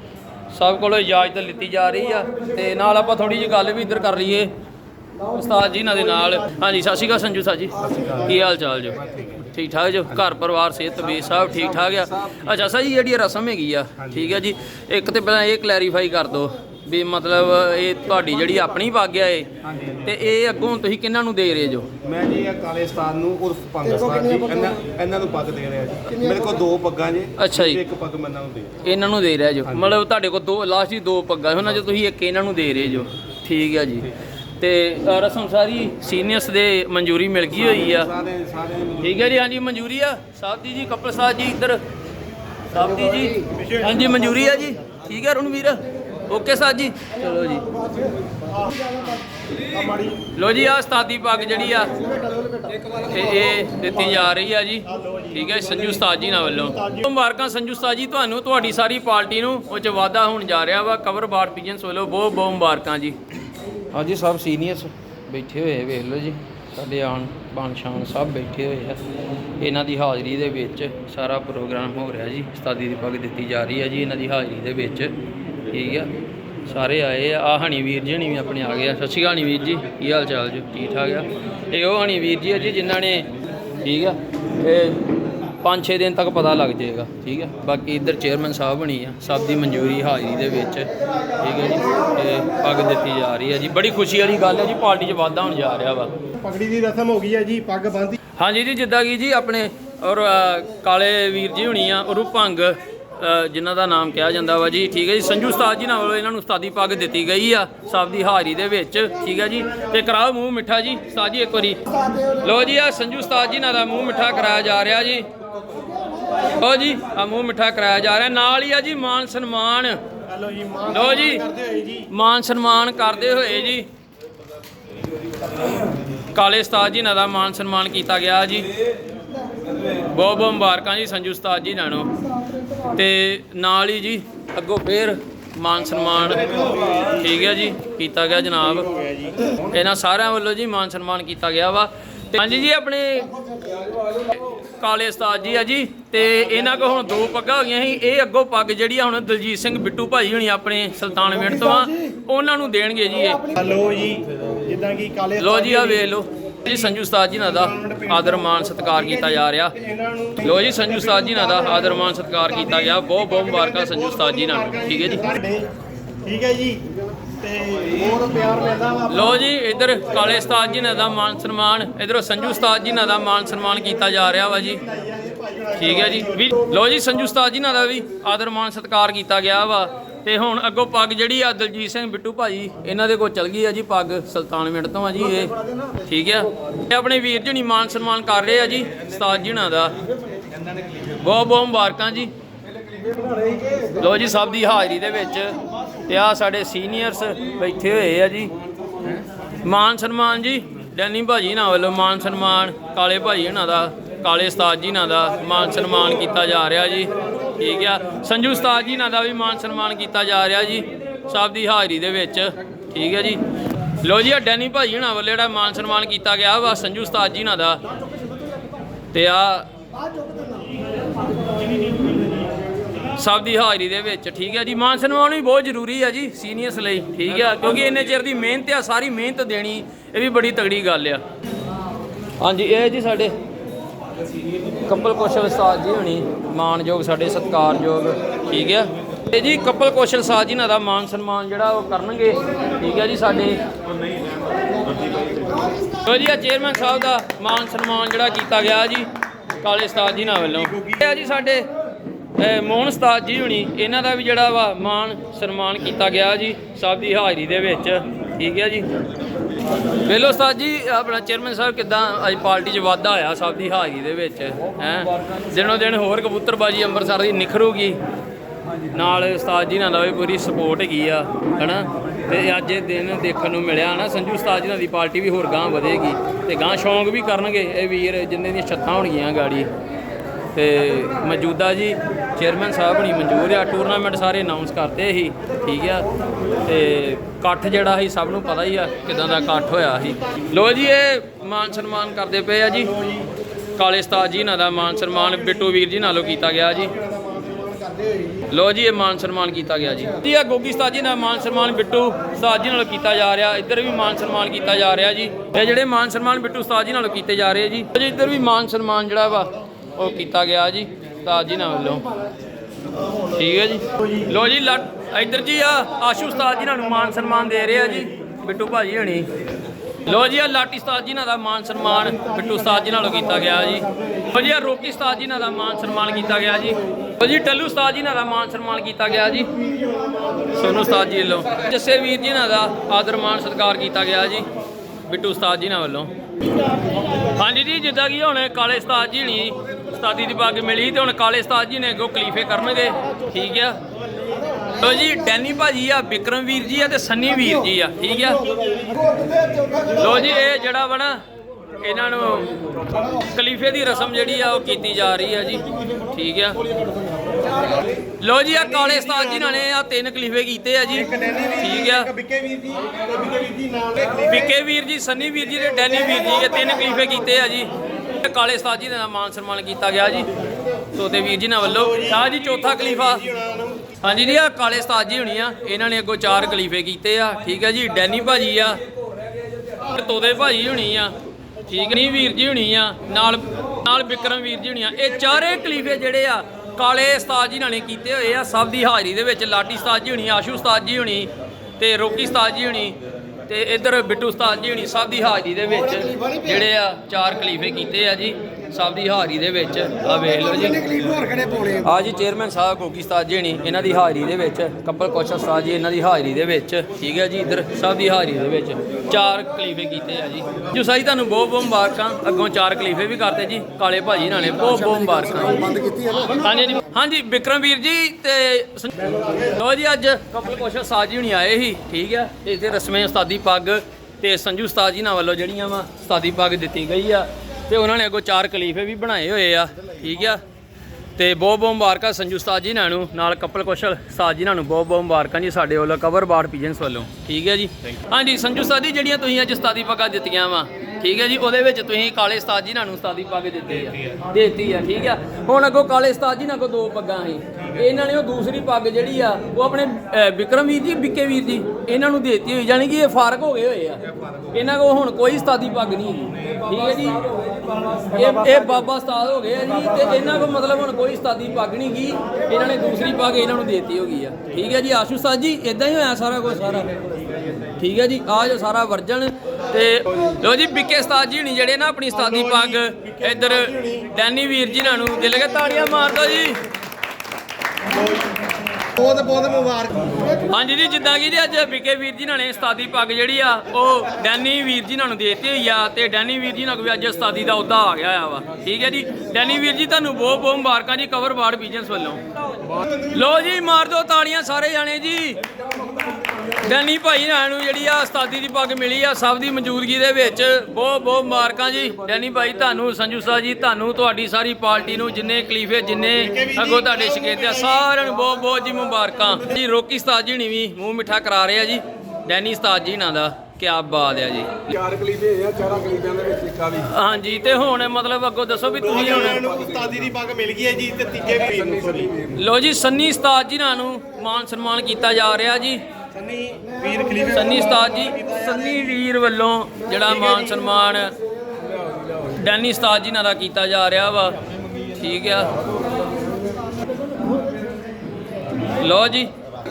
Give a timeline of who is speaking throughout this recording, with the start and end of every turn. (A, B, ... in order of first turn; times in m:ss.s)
0:00.5-0:04.5 A
0:05.3-0:19.5 A
0:07.8-0:09.5 B
0:11.5-0:12.2 C
0:14.0-0:14.3 B
0:19.6-0:20.2 B
0:20.0-0:21.9 A
0:22.0-0:28.8 B
0:24.0-0:24.7 D
0:27.4-0:27.8 A
0:28.8-0:38.1 A
0:29.6-0:29.9 B
0:37.5-0:39.2 B
0:39.0-0:41.8 A
0:42.7-0:47.7 A
0:43.5-0:44.7 D
0:48.5-0:50.2 D
0:50.3-0:52.0 A
0:52.0-0:53.1 C
0:53.1-1:03.2 A
0:54.8-0:56.0 D
0:56.5-0:57.1 D
1:03.9-1:09.0 A
1:09.6-1:15.2 A
1:15.7-1:16.1 A
1:16.6-1:23.3 A
1:23.8-1:25.1 A
1:25.6-1:36.1 A
1:36.4-1:38.2 D
1:38.4-1:55.3 A
1:56.4-2:00.0 A
2:00.3-2:02.1 D
2:00.9-2:01.4 A
2:02.1-2:03.9 A
2:06.3-2:08.7 A
2:09.9-2:12.1 A
2:12.8-2:18.9 A
2:18.8-2:19.5 D
2:19.6-2:23.4 A
2:23.6-2:24.3 C
2:24.5-2:33.4 A
2:31.4-2:31.9 D
2:33.4-2:36.1 D
2:35.4-2:39.7 A
2:36.6-2:45.7 D
2:40.4-2:45.3 A
2:46.2-2:49.4 D
2:49.1-2:54.8 A
2:54.7-2:56.7 D
2:55.8-3:09.9 A
3:11.2-3:12.3 A
3:13.1-3:13.7 C
3:14.0-3:18.5 A
3:19.6-3:33.4 A
3:34.0-3:37.8 A
3:39.1-3:39.7 A
3:43.1-3:51.2 A
3:52.4-3:53.3 A
3:54.8-4:03.6 A
4:06.0-4:09.1 A
4:09.6-4:11.7 A
4:10.2-4:11.0 D
4:12.4-4:18.9 A
4:20.0-4:28.0 A
4:28.9-4:39.7 A
4:40.5-4:46.1 A
4:46.6-4:52.9 A
4:52.9-4:53.3 D
4:53.8-4:57.0 A
4:56.9-4:58.4 D
4:58.5-5:12.1 A
5:13.3-5:19.3 A
5:14.0-5:14.3 D
5:20.0-5:29.5 A
5:22.1-5:24.4 D
5:29.6-5:31.2 D
5:30.5-5:34.5 A
5:35.1-5:36.1 A
5:37.2-5:43.8 A
5:44.2-5:44.6 D
5:44.7-5:48.4 A
5:48.4-5:49.8 D
5:49.9-5:51.2 A
5:51.8-5:56.6 A
5:56.7-5:57.5 D
5:58.2-6:02.1 A
5:58.5-5:59.6 D
6:00.9-6:04.6 D
6:04.3-6:10.3 A
6:05.4-6:07.3 D
6:10.9-6:13.2 A
6:11.6-6:14.0 D
6:14.0-6:18.8 A
6:19.8-6:21.1 A
6:21.6-6:33.0 A
6:33.5-6:41.1 A
6:35.9-6:36.6 D
6:40.2-6:41.9 D
6:41.8-7:10.4 A
6:55.7-6:56.2 D
6:59.0-6:59.6 D
7:11.2-7:37.4 A
7:37.2-7:38.1 C
7:38.1-7:46.9 A
7:47.8-7:56.6 A
7:52.1-7:54.1 D
7:54.9-7:56.2 D
7:57.9-8:00.4 D
8:00.5-8:12.2 A
8:13.0-8:15.4 A
8:15.6-8:16.3 C
8:16.5-8:34.8 A
8:26.2-8:27.8 D
8:34.7-8:36.9 C
8:36.8-8:39.4 A
8:38.8-8:42.1 D
8:38.9-8:40.1 C
8:41.5-8:42.4 C
8:42.4-8:45.8 A
8:46.1-8:49.0 D
8:47.2-8:51.1 A
8:50.0-8:50.6 D
8:51.6-8:52.4 C
8:52.3-8:54.4 A
8:54.9-8:55.5 A
8:58.8-8:59.3 A